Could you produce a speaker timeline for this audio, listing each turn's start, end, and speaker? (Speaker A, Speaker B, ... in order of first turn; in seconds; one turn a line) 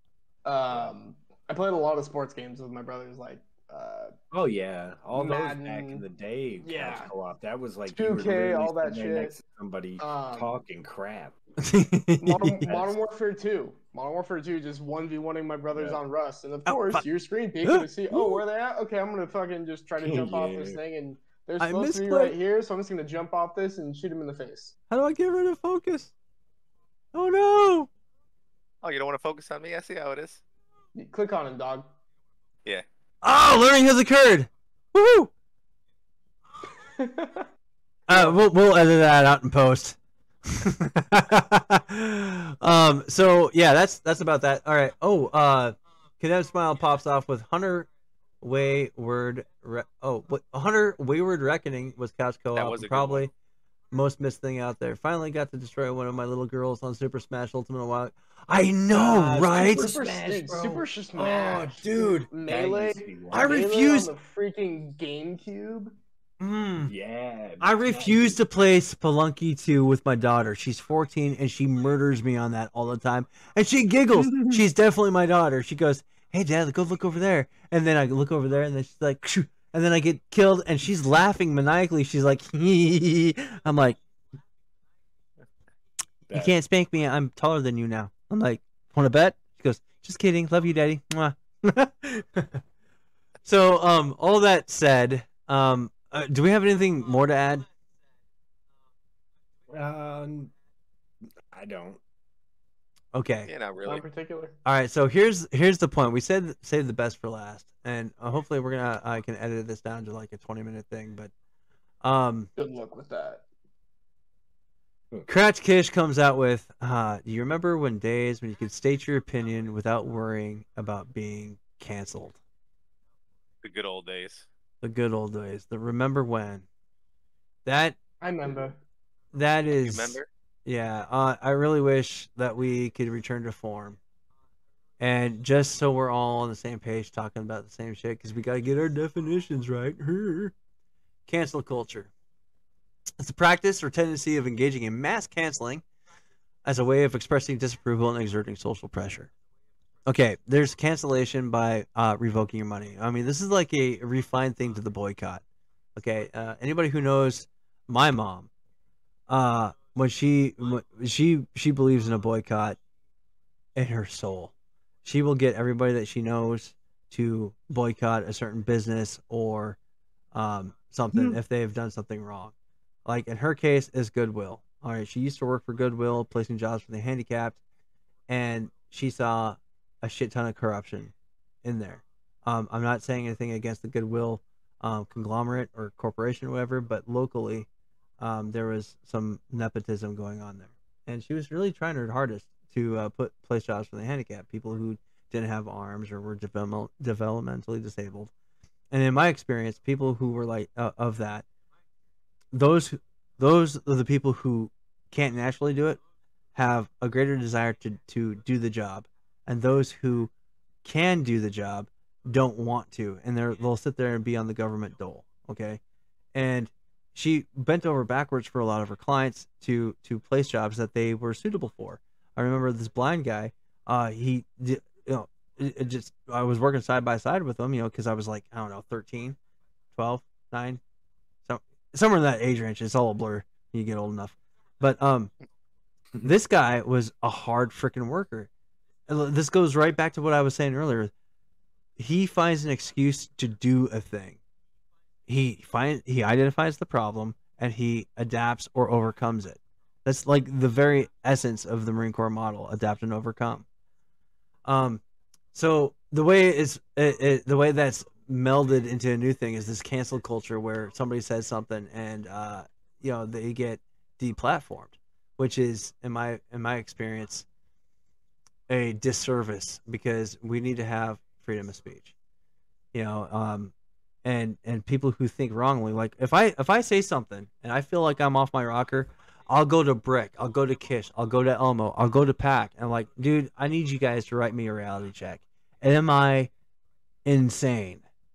Speaker A: 0.5-4.1
Speaker B: 4.3-11.3
Speaker A: 5.2-6.0
Speaker A: 6.6-7.1
Speaker A: 7.9-9.3
Speaker A: 10.0-10.5
Speaker C: 11.6-12.7
Speaker A: 12.2-24.8
Speaker B: 12.7-12.9
Speaker B: 15.7-16.0
Speaker C: 16.7-17.1
Speaker C: 17.6-18.4
Speaker B: 20.0-20.8
Speaker C: 21.6-22.4
Speaker C: 24.9-26.1
Speaker C: 27.1-27.9
Speaker D: 28.8-30.4
Speaker A: 30.9-31.9
Speaker C: 33.2-35.3
Speaker A: 37.0-37.5
Speaker C: 38.1-47.9
Speaker A: 38.1-38.4
Speaker C: 48.4-53.3
Speaker D: 52.5-53.3
Speaker C: 53.9-59.9
Speaker B: 58.9-60.9
Speaker A: 59.6-66.0
Speaker C: 61.1-62.3
Speaker B: 62.5-63.6
Speaker C: 63.3-64.1
Speaker C: 66.4-66.9
Speaker B: 66.9-68.4
Speaker C: 67.6-84.0
Speaker B: 74.2-74.6
Speaker C: 86.3-92.6
Speaker C: 93.4-97.7
Speaker B: 99.7-100.5
Speaker B: 101.5-102.0
Speaker C: 103.1-103.5
Speaker D: 103.5-104.0
Speaker A: 103.8-104.6
Speaker C: 104.7-111.3
Speaker C: 112.0-112.5
Speaker A: 112.6-113.5
Speaker C: 115.3-122.4
Speaker D: 123.6-124.5
Speaker C: 124.8-126.7
Speaker C: 127.7-128.0
Speaker A: 128.2-128.8
Speaker C: 129.3-134.0
Speaker D: 129.8-130.3
Speaker C: 135.0-140.5
Speaker C: 141.3-142.1
Speaker C: 143.2-145.8
Speaker C: 146.7-149.3
Speaker C: 150.1-155.4
Speaker C: 156.0-158.5
Speaker C: 159.3-162.8
Speaker C: 163.8-164.5
Speaker C: 165.0-169.8
Speaker C: 170.3-172.5
Speaker C: 173.1-177.6
Speaker C: 178.3-181.1
Speaker C: 181.6-187.7
Speaker C: 188.2-198.3
Speaker C: 198.9-201.4
Speaker C: 202.5-206.0
Speaker C: 206.6-210.3
Speaker C: 210.8-215.8
Speaker C: 216.3-229.4
Speaker C: 229.9-230.8
Speaker C: 231.5-235.3
Speaker C: 236.2-238.5
Speaker C: 239.1-241.1
Speaker C: 242.0-244.4
Speaker C: 245.3-253.7
Speaker C: 254.7-255.0
Speaker C: 255.5-267.5
Speaker C: 268.7-272.1
Speaker C: 272.9-273.7
Speaker C: 274.2-286.5
Speaker C: 287.2-288.1